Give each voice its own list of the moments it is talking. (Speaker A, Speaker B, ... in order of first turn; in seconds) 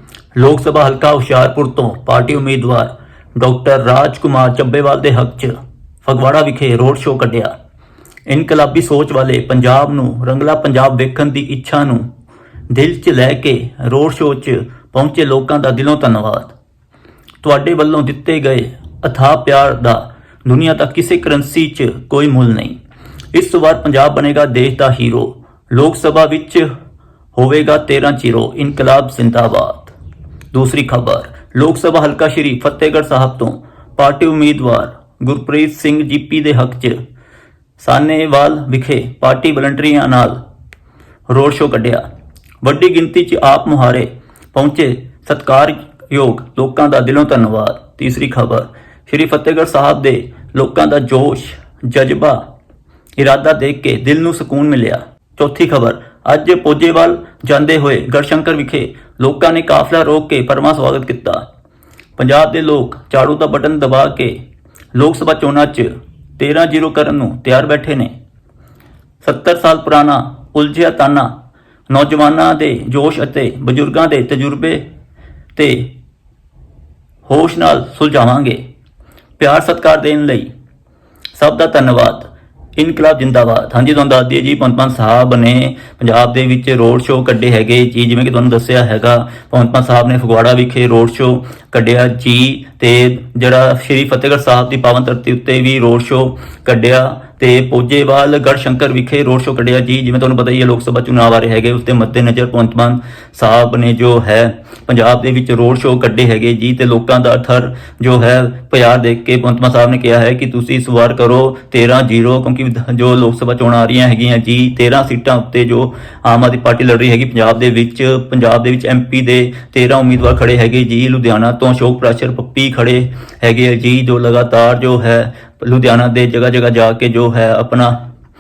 Speaker A: 0.3-7.5, 8.3-12.1, 12.7-16.6, 17.4-22.8, 23.3-26.7, 27.4-29.9, 30.5-37.0, 37.8-40.4, 41.3-42.0, 42.6-52.5, 53.2-61.5, 62.2-64.4, 64.9-68.1, 69.2-71.3, 71.9-74.8, 75.6-75.9, 77.3-78.6, 79.4-80.5, 81.4-128.0